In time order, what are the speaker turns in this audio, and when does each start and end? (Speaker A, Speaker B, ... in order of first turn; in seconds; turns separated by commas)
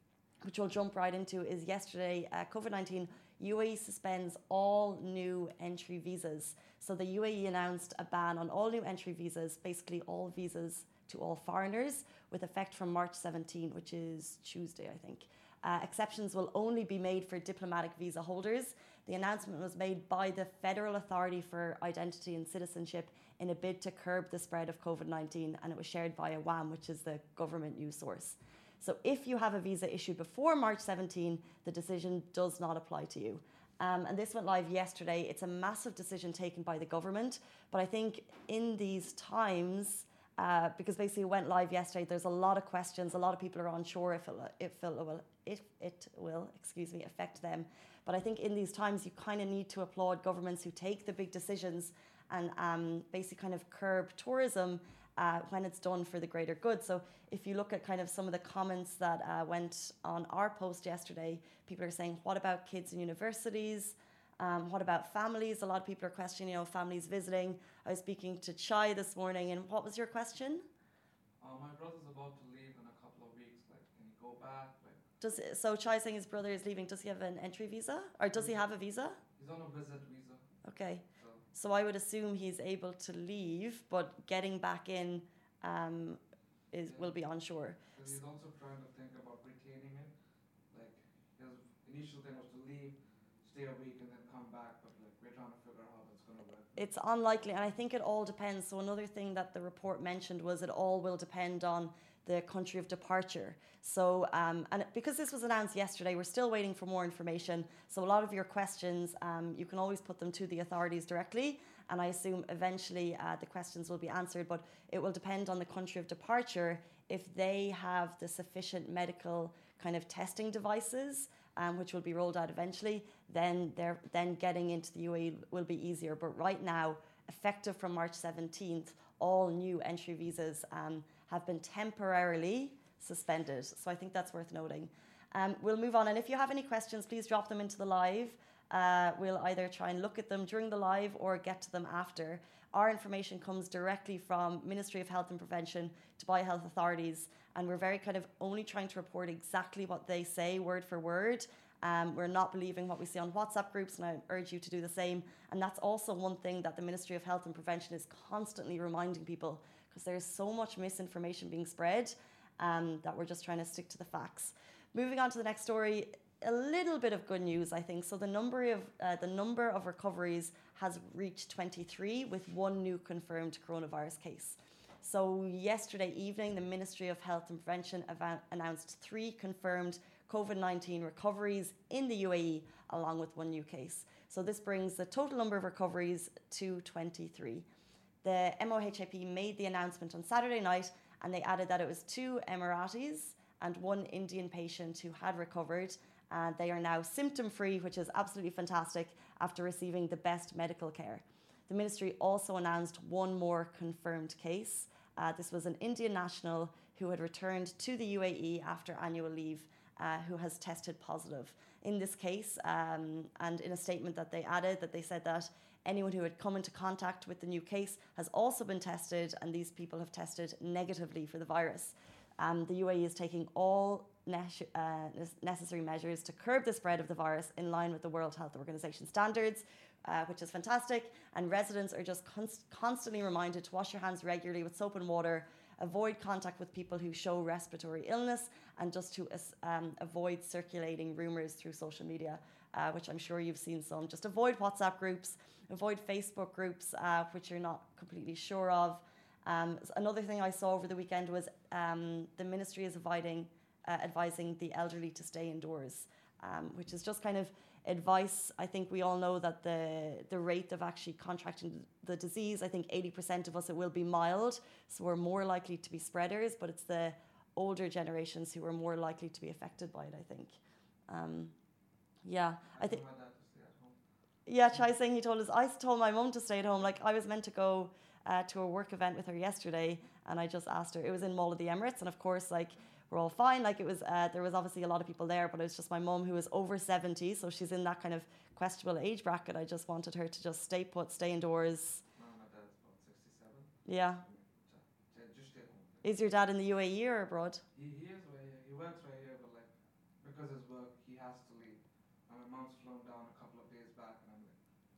Speaker A: 0.4-70.6, Speaker B: 71.4-75.0, Speaker A: 75.2-79.2, Speaker B: 79.4-80.4, Speaker A: 80.6-86.2, Speaker B: 81.2-81.4, Speaker A: 86.7-88.0, Speaker B: 86.9-87.1, Speaker B: 87.9-90.1, Speaker B: 90.7-96.9, Speaker A: 96.8-187.7, Speaker A: 188.2-270.6, Speaker A: 271.1-271.5, Speaker A: 272.2-273.0, Speaker B: 272.7-274.0, Speaker A: 274.5-292.0, Speaker B: 292.1-296.1, Speaker A: 293.9-294.2, Speaker A: 296.0-297.6, Speaker B: 297.7-304.6